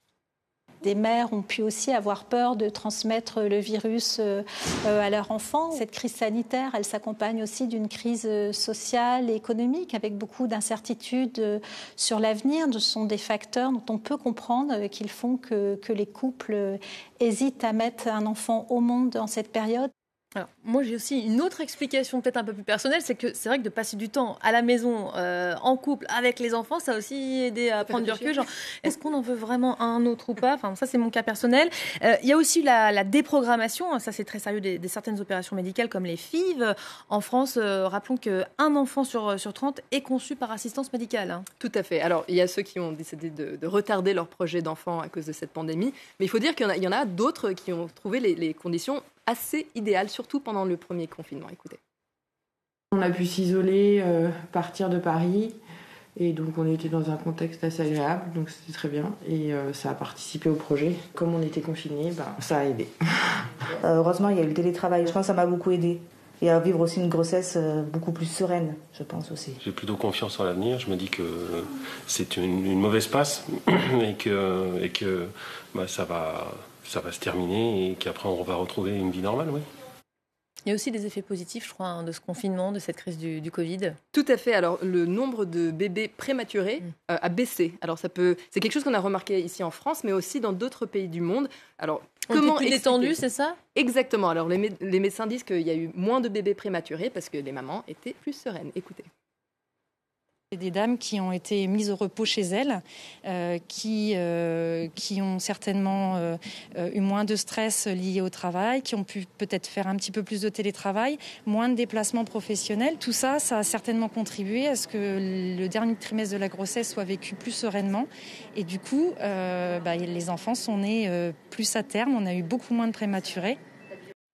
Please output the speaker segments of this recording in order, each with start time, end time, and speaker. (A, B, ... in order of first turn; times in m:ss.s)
0:00.8-0:19.9 A
0:20.4-0:41.4 B
0:27.9-0:28.3 C
0:41.6-0:51.8 C
0:52.9-0:55.6 D
0:56.2-1:03.3 D
1:03.8-1:09.6 E
1:09.6-1:19.7 F
1:20.6-1:24.0 B
1:24.1-1:33.2 C
1:32.3-1:33.6 B
1:33.7-1:39.1 C
1:40.5-2:03.6 G